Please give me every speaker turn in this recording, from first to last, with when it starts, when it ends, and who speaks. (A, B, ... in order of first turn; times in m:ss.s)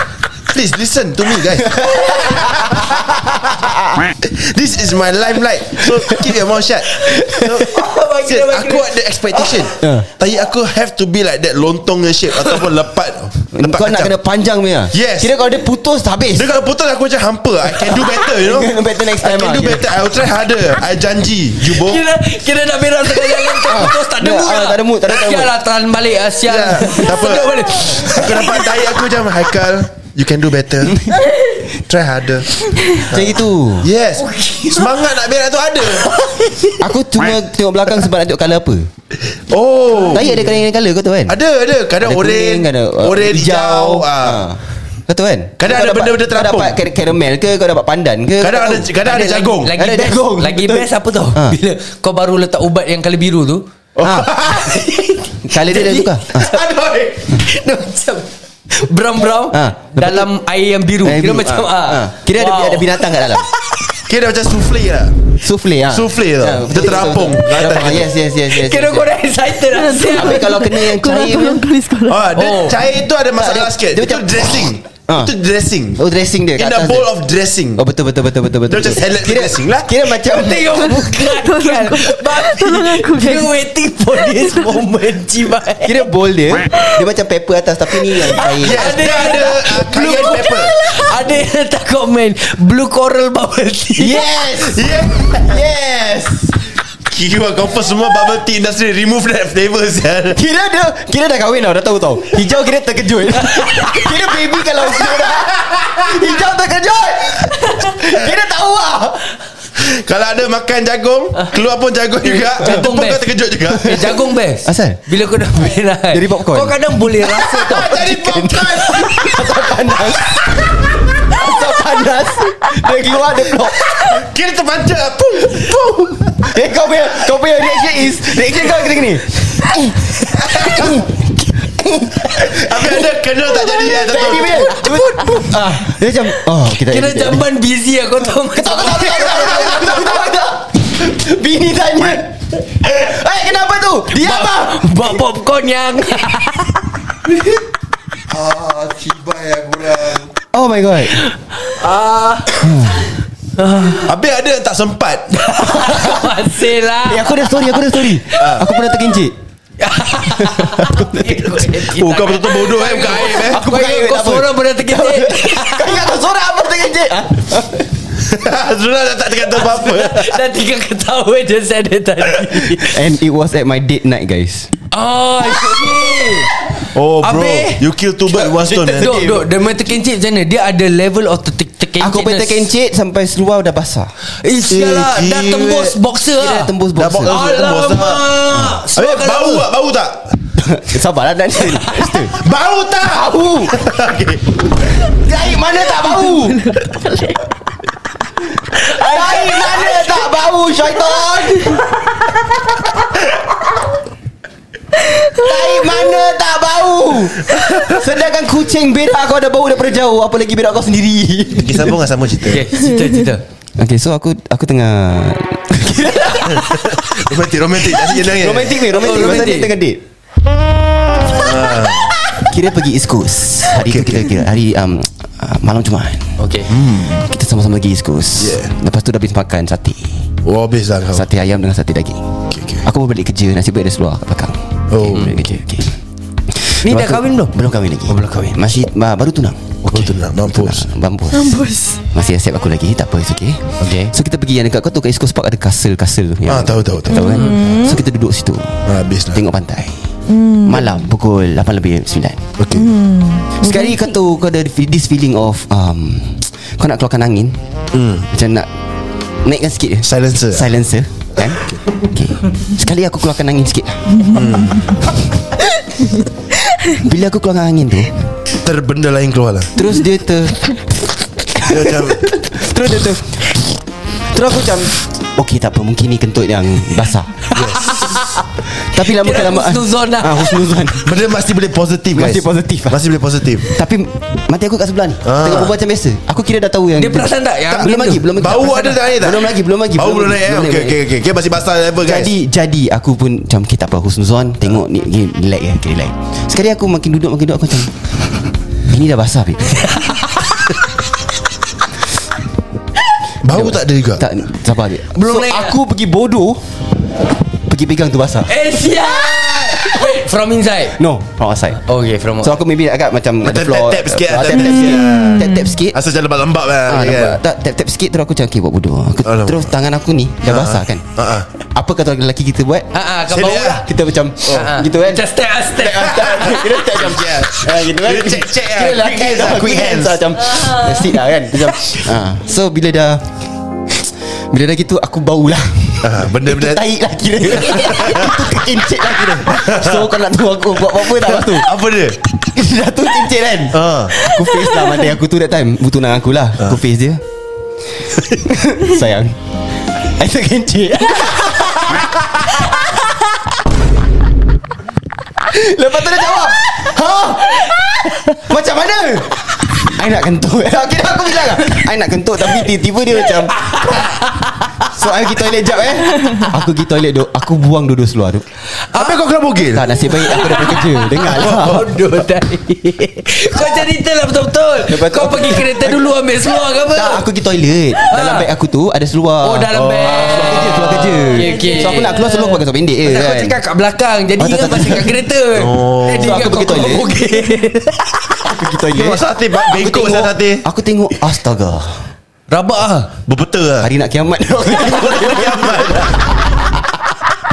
0:00.5-0:03.0 A
0:01.6-0:04.0 B
0:04.2-0:14.1 A
0:05.8-0:06.4 B
0:07.0-0:07.7 B
0:07.0-0:09.7 C
0:09.7-0:10.1 B
0:13.5-0:16.5 B
0:14.9-0:15.3 A
0:16.3-0:22.0 A
0:17.7-0:19.9 B
0:21.6-0:28.8 C
0:23.6-0:25.5 B
0:26.4-0:31.1 A
0:31.8-0:36.1 A
0:33.0-0:33.9 B
0:34.2-0:34.9 C
0:36.1-0:36.8 C
0:36.8-0:38.9 B
0:39.5-0:40.3 A
0:40.1-0:41.4 B
0:41.3-0:44.5 A
0:42.0-0:48.9 B
0:45.6-0:46.8 A
0:48.4-0:49.7 A
0:49.0-0:53.6 C
0:49.7-0:51.6 B
0:54.0-0:54.8 A
0:54.0-0:54.4 B
0:54.6-1:03.8 C
0:55.4-0:56.5 B
0:59.5-1:00.3 B
1:01.0-1:03.5 B
1:04.1-1:05.2 A
1:05.4-1:09.2 B
1:05.9-1:08.1 A
1:08.5-1:10.5 C
1:09.7-1:12.3 D
1:10.1-1:11.7 B
1:12.1-1:16.0 A
1:12.4-1:12.8 C
1:13.3-1:15.3 B
1:16.0-1:17.1 B
1:16.6-1:17.8 A
1:17.8-1:20.9 B
1:18.7-1:19.9 A
1:20.2-1:26.0 C
1:20.8-1:23.5 D
1:24.3-1:24.6 D
1:25.8-1:29.0 B
1:28.2-1:34.2 C
1:28.6-1:30.7 A
1:34.0-1:36.6 B
1:34.6-1:35.6 A
1:37.1-1:40.4 A
1:40.3-1:49.3 B
1:43.5-1:44.0 C
1:49.8-1:54.1 A
1:52.2-1:58.4 C
1:53.8-1:54.1 B
1:54.6-1:55.0 B
1:56.1-2:04.2 B
1:57.4-1:59.4 A
2:03.9-2:06.6 A
2:05.5-2:13.1 B
2:10.3-2:11.0 A
2:12.3-2:14.8 A
2:13.6-2:17.4 B
2:14.8-2:15.4 C
2:16.8-2:19.7 C
2:18.5-2:25.1 B
2:19.0-2:20.3 A
2:24.1-2:26.8 C
2:28.3-2:30.3 A
2:30.5-2:31.2 B
2:31.2-2:33.0 C
2:32.6-2:33.1 B
2:33.6-2:34.1 C
2:34.0-2:35.8 A
2:35.3-2:38.5 C
2:35.8-2:36.2 B
2:37.0-2:39.4 B
2:38.4-2:38.6 A
2:39.8-2:46.0 C
2:40.2-2:41.7 B
2:41.9-2:43.6 A
2:43.2-2:48.0 B
2:48.2-2:50.4 A
2:49.5-2:53.0 C
2:52.8-2:54.7 B
2:54.9-2:56.6 C
2:55.4-2:56.5 B
2:56.9-2:59.2 A
2:57.2-2:57.9 C
2:58.3-2:59.5 B
2:58.9-3:02.7 C
3:02.0-3:04.1 B
3:04.4-3:09.7 C
3:04.7-3:06.0 A
3:06.4-3:07.4 B
3:07.0-3:08.3 A
3:08.5-3:08.8 B
3:08.9-3:10.4 A
3:10.6-3:12.4 B
3:11.7-3:12.2 C
3:12.3-3:14.7 A
3:13.1-3:13.8 B
3:15.1-3:16.7 B
3:18.7-3:21.9 B
3:19.2-3:20.0 C
3:25.3-3:32.0 B
3:27.5-3:28.0 A
3:31.6-3:32.7 A
3:32.4-3:33.4 C
3:33.8-3:37.2 B
3:36.5-3:38.9 A
3:37.8-3:40.0 B
3:38.9-3:39.7 C
3:41.3-3:42.2 A
3:42.3-3:46.4 B
3:43.8-3:44.3 A
3:46.4-3:46.7 C
3:46.7-3:47.2 A
3:47.0-3:50.3 B
3:48.4-3:48.7 A
3:50.4-3:51.2 A
3:51.1-3:56.0 B
3:52.5-3:52.9 A
3:54.9-3:55.4 A
3:56.5-4:10.1 B
3:56.8-3:57.5 C
3:58.1-3:58.6 C
3:59.8-4:00.9 A
4:01.3-4:02.0 D
4:03.8-4:04.1 C
4:06.5-4:07.3 A
4:07.1-4:08.0 D
4:07.2-4:07.5 C
4:08.9-4:09.4 A
4:10.3-4:11.0 D
4:10.6-4:12.5 B
4:12.6-4:12.9 A
4:12.7-4:14.1 D
4:13.6-4:17.6 B
4:17.9-4:18.3 A
4:18.3-4:18.7 B
4:19.4-4:24.4 B
4:20.0-4:20.7 A
4:21.4-4:21.8 A
4:24.3-4:25.0 A
4:26.9-4:28.1 B
4:28.6-4:29.7 A
4:29.8-4:33.8 B
4:31.7-4:32.3 A
4:34.3-4:37.6 B
4:37.5-4:40.8 C
4:37.5-4:38.2 A
4:38.7-4:41.2 B
4:41.0-4:43.7 A
4:42.1-4:43.1 B
4:43.6-4:51.0 B
4:45.2-4:45.7 A
4:47.0-4:49.0 C
4:47.7-4:52.3 A
4:52.0-4:59.8 B
4:59.8-5:00.6 C
5:03.4-5:04.2 A
5:03.5-5:06.6 B
5:05.2-5:05.8 C
5:07.5-5:08.6 B
5:08.5-5:11.0 C
5:09.3-5:10.0 B
5:11.0-5:11.8 B
5:11.9-5:12.6 C
5:12.4-5:16.0 B
5:13.4-5:17.4 A
5:14.8-5:15.7 D
5:16.9-5:21.1 B
5:19.2-5:19.7 A
5:20.4-5:21.5 A
5:21.6-5:22.9 B
5:22.9-5:23.9 C
5:23.3-5:23.8 A
5:23.8-5:33.3 B
5:24.5-5:26.8 C
5:26.1-5:30.3 A
5:34.5-5:41.7 B
5:36.0-5:36.8 A
5:37.5-5:38.6 A
5:39.1-5:40.1 A
5:40.9-5:42.2 A
5:42.4-5:47.2 B
5:43.7-5:44.2 A
5:44.4-5:44.9 D
5:48.3-5:49.4 B
5:49.9-5:53.2 B
5:55.4-6:04.1 B
6:03.3-6:04.9 C
6:04.9-6:08.4 B
6:08.9-6:09.2 C
6:09.0-6:09.9 A
6:09.7-6:11.9 B
6:10.0-6:17.3 C
6:11.4-6:11.9 A
6:14.8-6:16.1 B
6:16.9-6:23.6 B
6:18.1-6:18.5 C
6:19.4-6:22.2 C
6:19.7-6:21.1 A
6:21.3-6:22.6 D
6:23.0-6:28.5 C
6:24.4-6:25.2 B
6:25.6-6:26.6 A
6:26.1-6:27.2 B
6:28.4-6:32.1 B
6:28.9-6:30.6 A
6:32.5-6:33.1 C
6:33.3-6:33.9 A
6:33.8-6:36.8 B
6:34.7-6:36.3 A